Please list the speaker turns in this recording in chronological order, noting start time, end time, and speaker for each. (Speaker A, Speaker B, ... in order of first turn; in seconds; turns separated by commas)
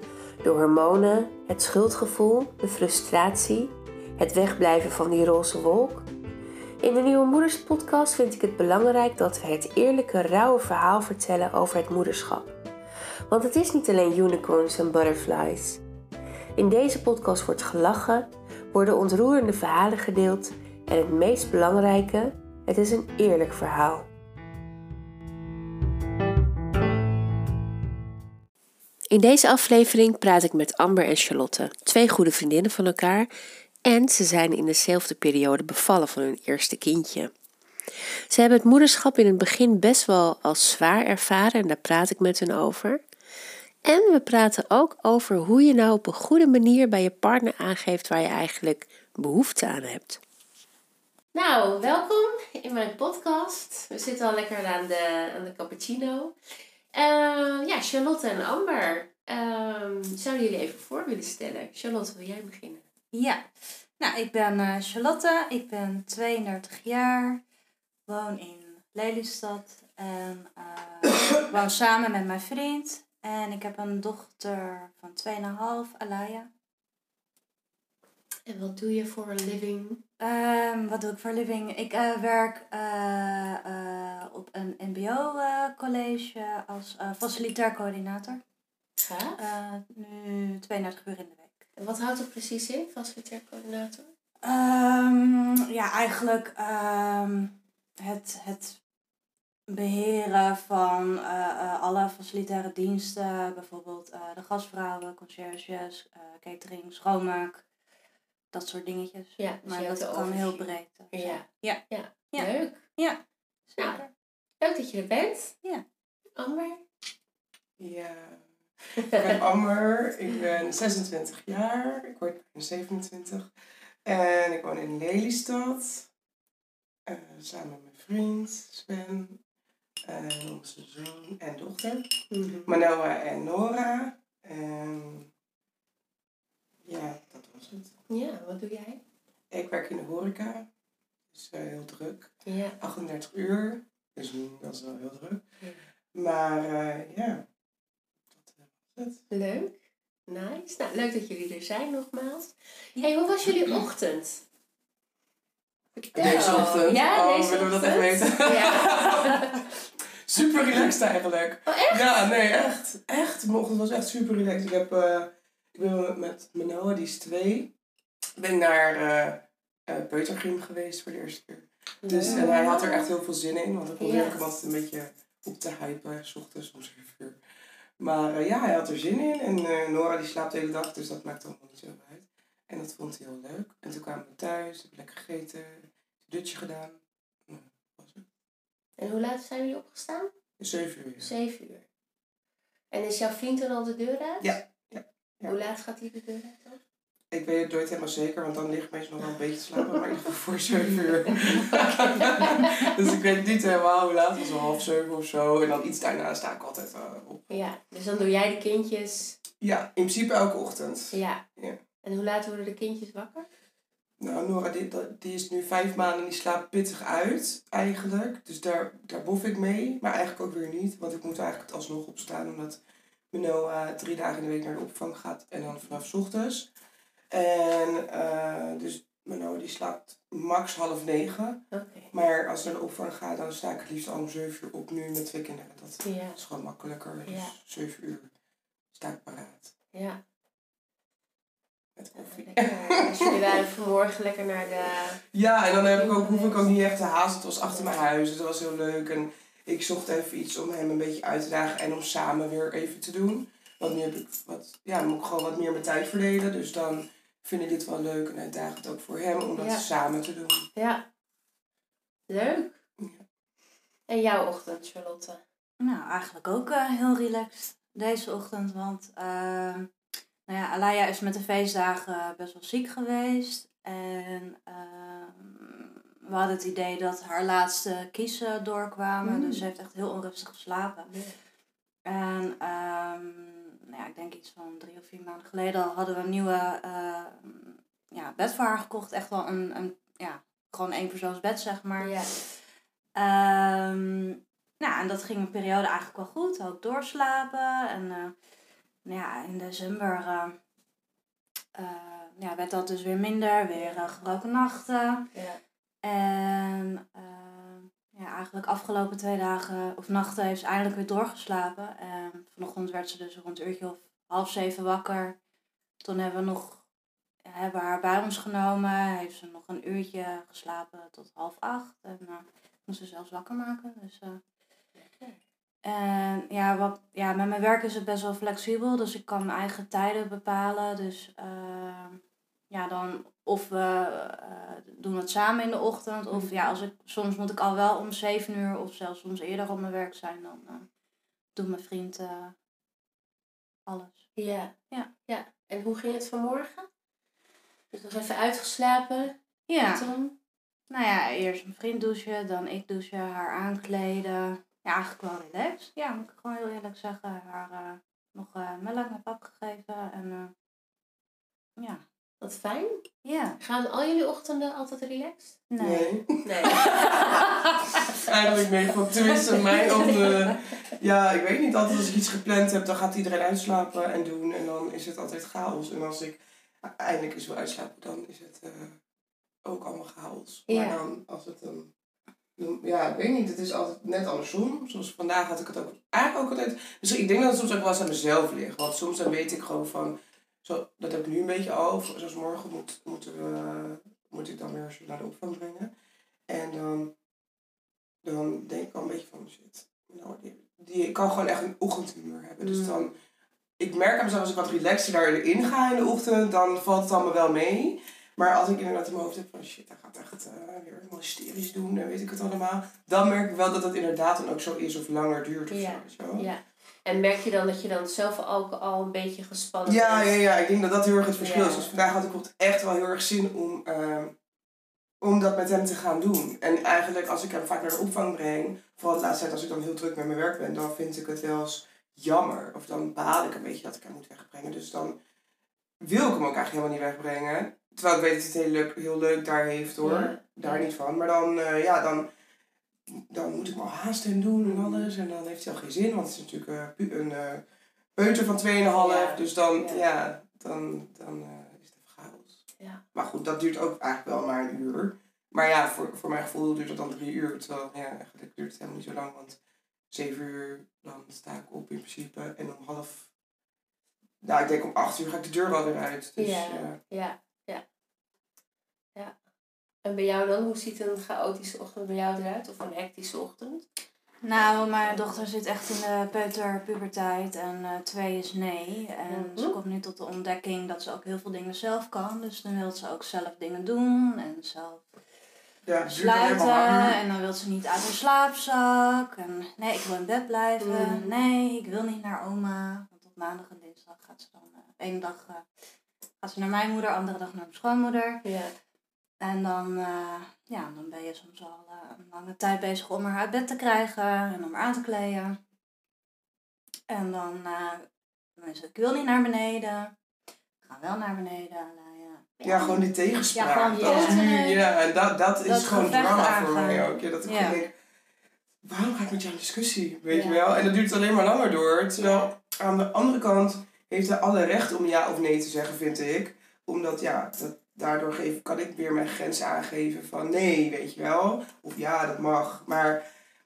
Speaker A: 0.4-6.1, Speaker A: 6.8-12.5, Speaker A: 13.3-15.8, Speaker A: 16.6-24.1, Speaker A: 29.1-33.3, Speaker A: 33.9-37.3, Speaker A: 38.3-43.0, Speaker A: 43.8-50.2, Speaker A: 51.3-56.3, Speaker A: 56.9-62.8, Speaker B: 63.1-63.4, Speaker B: 64.0-67.4, Speaker B: 68.1-76.5, Speaker A: 78.5-80.0, Speaker B: 80.2-88.4, Speaker A: 89.0-89.4, Speaker B: 89.4-91.7, Speaker A: 91.8-94.1, Speaker B: 94.4-98.8, Speaker B: 99.7-107.6, Speaker B: 108.5-113.2, Speaker A: 109.4-112.9, Speaker B: 113.7-114.1, Speaker A: 114.6-115.5, Speaker A: 116.3-116.8, Speaker C: 117.8-123.5, Speaker A: 119.1-119.4, Speaker C: 124.0-126.1, Speaker C: 127.0-129.4, Speaker C: 130.1-132.1, Speaker A: 132.3-132.7, Speaker C: 132.7-135.3, Speaker C: 136.8-137.9, Speaker A: 138.1-139.0, Speaker C: 139.5-140.7, Speaker C: 141.3-145.4, Speaker A: 142.4-142.8, Speaker C: 146.1-147.4, Speaker C: 148.3-149.2, Speaker A: 149.3-154.4, Speaker A: 156.0-159.6, Speaker C: 156.1-159.6, Speaker C: 160.2-167.7, Speaker A: 161.7-162.1, Speaker C: 168.4-177.4, Speaker A: 172.0-173.1, Speaker B: 172.2-172.7, Speaker A: 174.0-174.4, Speaker C: 178.0-188.2, Speaker A: 189.0-190.3, Speaker C: 190.6-191.3, Speaker A: 191.2-191.8, Speaker A: 192.9-194.6, Speaker C: 194.4-195.5, Speaker A: 195.4-196.8, Speaker C: 197.3-207.6, Speaker A: 201.2-203.1, Speaker A: 207.5-209.4, Speaker C: 209.6-211.8, Speaker A: 211.1-211.4, Speaker A: 212.0-213.5, Speaker C: 214.2-222.8, Speaker C: 223.3-226.7, Speaker C: 227.3-238.3, Speaker A: 231.7-232.1, Speaker A: 236.0-236.4, Speaker A: 237.3-237.6, Speaker C: 238.9-239.7, Speaker A: 239.9-240.2, Speaker C: 241.9-243.6, Speaker A: 242.3-245.2, Speaker C: 245.3-260.6, Speaker A: 245.9-246.7, Speaker A: 259.6-259.9, Speaker A: 260.8-261.1, Speaker A: 262.3-262.8, Speaker C: 263.0-263.2, Speaker A: 264.1-265.4, Speaker B: 265.8-269.9, Speaker B: 270.5-281.1, Speaker A: 279.2-279.6, Speaker B: 282.1-292.1, Speaker A: 292.0-292.3, Speaker B: 293.2-298.3, Speaker B: 299.0-300.6, Speaker B: 301.7-305.3, Speaker A: 303.7-304.1, Speaker A: 305.3-305.6, Speaker B: 306.0-315.4, Speaker B: 316.0-316.8, Speaker B: 317.4-324.4, Speaker A: 325.0-325.4, Speaker B: 325.8-340.9, Speaker A: 336.3-336.7, Speaker B: 341.5-342.5, Speaker B: 343.9-344.3, Speaker A: 344.4-344.7, Speaker A: 345.3-346.9, Speaker A: 347.9-349.3, Speaker B: 349.7-350.0, Speaker A: 349.9-350.3, Speaker B: 350.9-360.5, Speaker B: 361.8-362.0, Speaker A: 362.4-363.0, Speaker B: 363.2-363.6, Speaker A: 363.6-365.6, Speaker B: 365.7-366.2, Speaker C: 365.8-379.0, Speaker A: 366.4-370.6, Speaker C: 379.6-381.9, Speaker A: 380.7-381.0, Speaker C: 382.6-395.9, Speaker C: 396.5-397.1, Speaker C: 398.2-403.1, Speaker A: 402.6-403.1, Speaker C: 403.8-416.5, Speaker A: 415.7-420.4, Speaker C: 419.9-424.3, Speaker A: 421.4-421.9, Speaker C: 425.2-435.2, Speaker C: 436.0-442.3, Speaker A: 440.0-440.9, Speaker C: 443.1-447.6, Speaker A: 444.6-445.1, Speaker C: 448.1-452.6, Speaker A: 448.9-450.0, Speaker C: 453.1-459.6, Speaker C: 460.1-463.3, Speaker C: 464.4-467.0, Speaker A: 466.4-467.8, Speaker A: 470.0-473.9, Speaker B: 474.4-485.1, Speaker A: 474.5-475.4, Speaker A: 479.3-479.8, Speaker C: 485.8-487.2, Speaker B: 486.0-495.6, Speaker A: 490.8-491.3, Speaker B: 496.4-498.4, Speaker A: 498.4-498.7, Speaker B: 499.4-505.6, Speaker B: 507.1-508.0, Speaker B: 508.6-510.1, Speaker B: 510.8-513.0, Speaker C: 512.6-517.9, Speaker B: 513.5-514.8, Speaker A: 514.0-514.4, Speaker B: 515.6-517.8, Speaker C: 518.8-533.2, Speaker B: 520.3-520.6, Speaker A: 522.2-522.5